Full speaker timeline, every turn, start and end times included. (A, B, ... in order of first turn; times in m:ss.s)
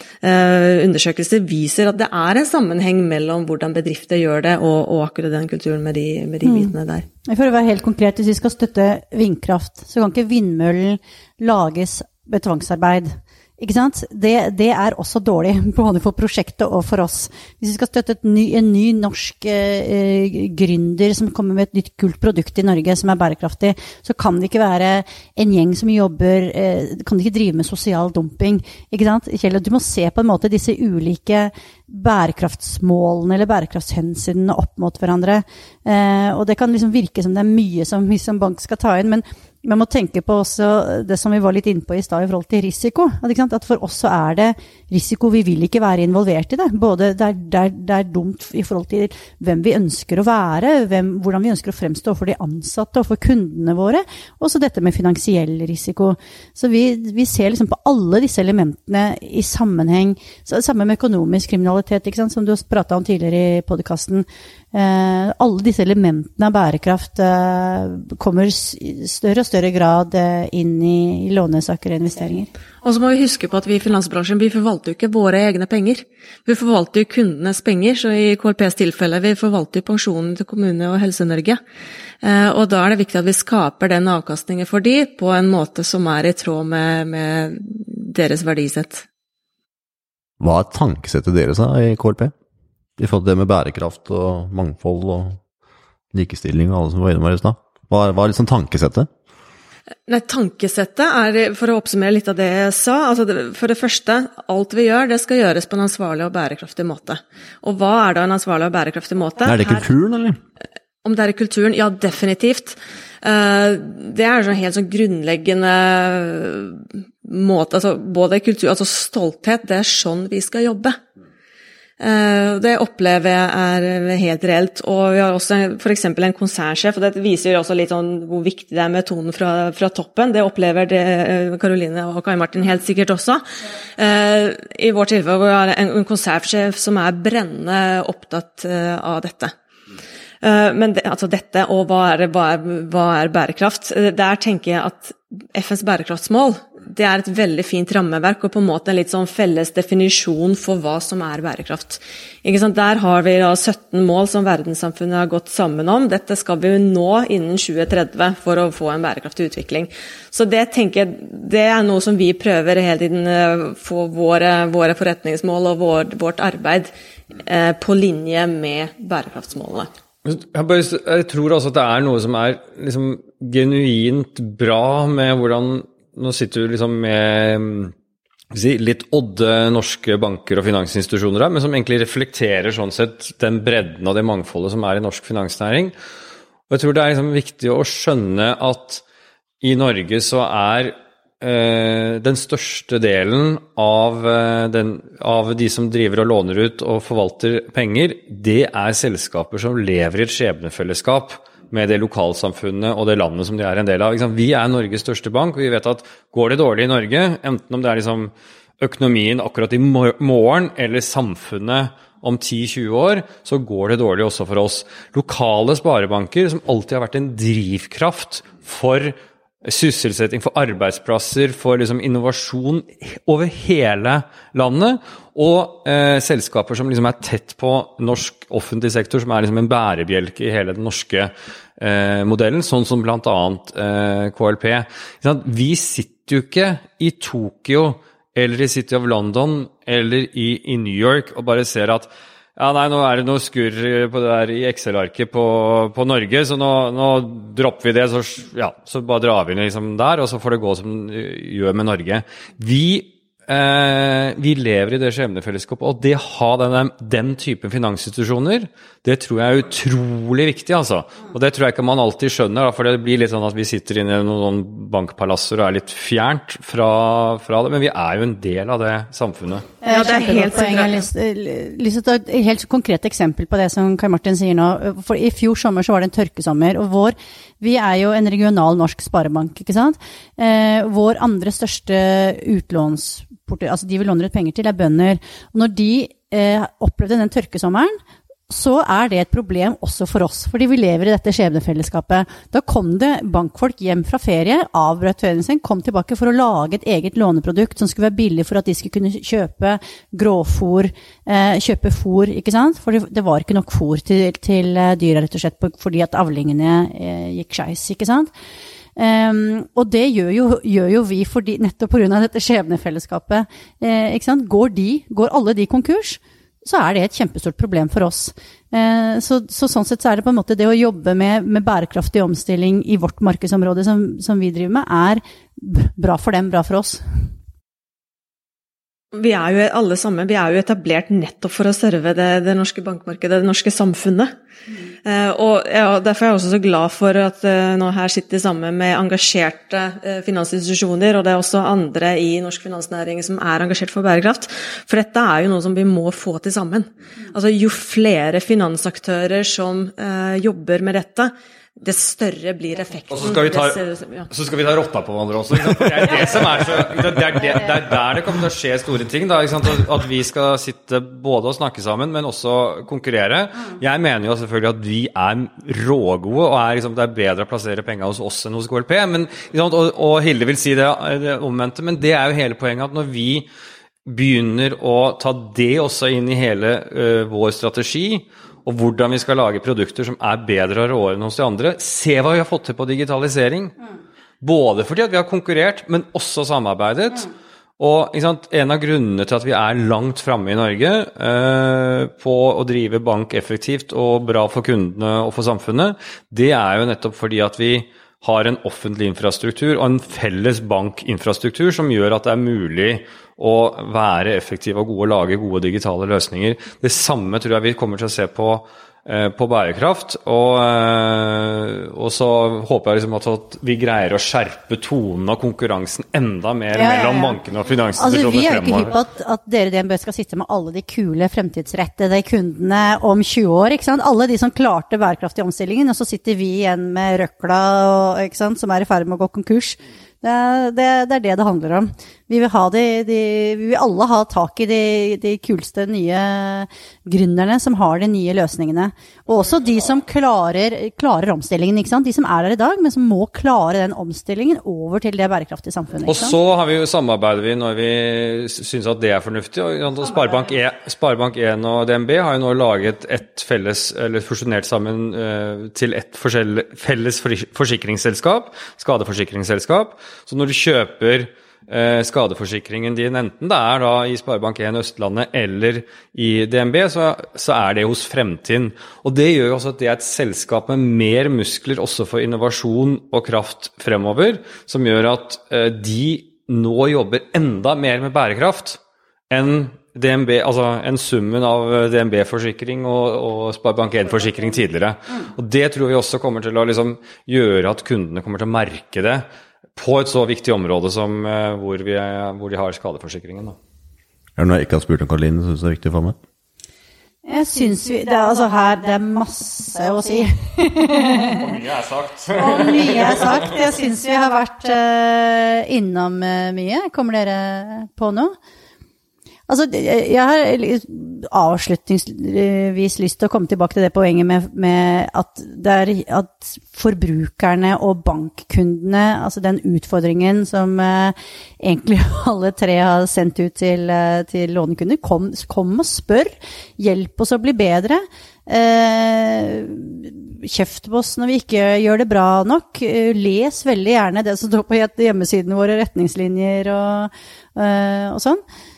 0:00.2-0:07.0 A
0:06.4-0:06.7 B
0:07.2-1:12.5 B
1:12.8-1:21.6 A
1:22.2-1:29.0 A
1:30.4-1:32.3 C
1:33.0-1:35.4 C
1:36.1-1:39.1 C
1:40.1-1:49.8 A
1:49.4-1:50.4 C
1:51.0-2:01.0 A
2:02.0-2:13.4 A
2:14.0-2:19.5 A
2:20.4-2:49.9 A
2:50.2-2:57.9 D
2:58.5-3:05.9 D
3:06.7-3:09.0 D
3:09.6-4:29.7 D
4:29.8-5:08.3 B
4:29.8-4:31.0 A
5:09.0-5:27.2 B
5:29.1-5:34.3 A
5:35.0-5:54.3 A
5:53.1-6:13.5 D
6:14.0-6:23.7 D
6:24.4-6:59.0 D
6:56.7-6:57.4 B
6:58.0-7:26.4 B
7:26.1-7:58.8 D
7:59.3-8:09.2 D
8:09.8-8:13.6 D
8:14.4-8:16.2 C
8:17.2-8:21.4 B
8:21.3-8:23.4 D
8:22.4-8:28.3 B
8:29.5-8:58.4 B